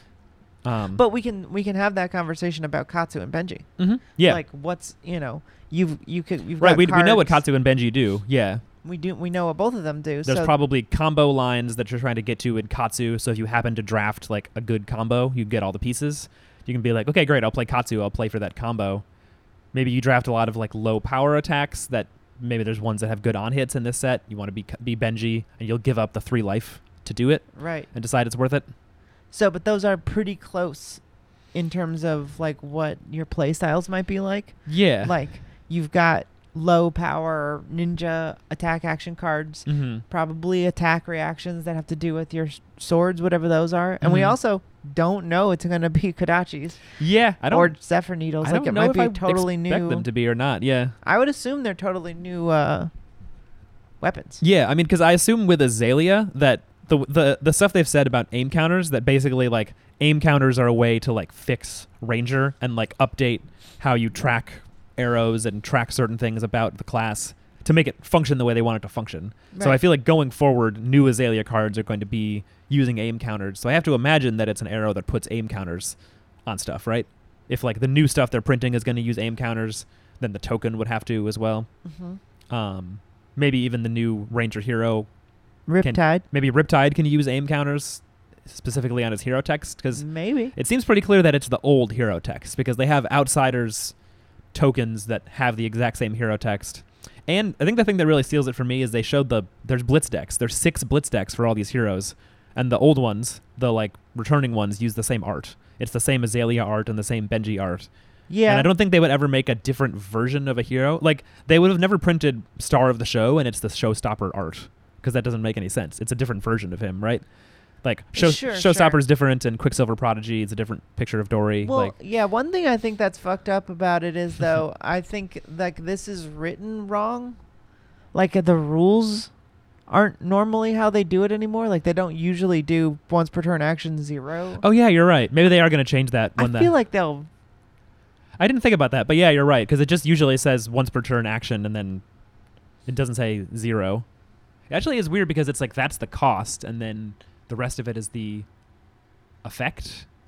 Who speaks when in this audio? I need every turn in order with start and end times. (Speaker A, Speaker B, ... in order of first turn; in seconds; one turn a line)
Speaker A: 0.6-1.0
Speaker B: 0.9-3.7
Speaker A: 3.8-4.4
Speaker B: 4.2-7.4
Speaker A: 6.6-8.6
Speaker B: 8.8-10.5
Speaker A: 10.2-19.0
Speaker A: 19.7-28.6
Speaker B: 27.6-27.9
Speaker B: 29.3-31.0
Speaker B: 31.5-46.9
Speaker A: 34.7-35.1
Speaker A: 39.6-40.0
Speaker A: 44.0-44.4
Speaker A: 47.0-47.7
Speaker B: 47.5-50.0
Speaker A: 48.4-51.0
Speaker B: 51.0-52.9
Speaker B: 54.0-54.4
Speaker A: 54.4-81.7
Speaker B: 69.5-69.8
Speaker B: 81.8-82.2
Speaker A: 82.5-85.1
Speaker B: 85.7-86.2
Speaker A: 85.8-93.9
Speaker B: 89.9-90.5
Speaker A: 94.5-107.9
Speaker B: 108.3-108.7
Speaker A: 108.5-117.2
Speaker A: 117.8-121.9
Speaker B: 118.1-119.0
Speaker B: 121.6-127.4
Speaker B: 128.1-129.3
Speaker B: 129.9-134.6
Speaker A: 134.6-136.7
Speaker B: 136.4-137.3
Speaker A: 138.4-142.0
Speaker A: 142.8-144.1
Speaker A: 144.7-148.5
Speaker A: 149.4-150.1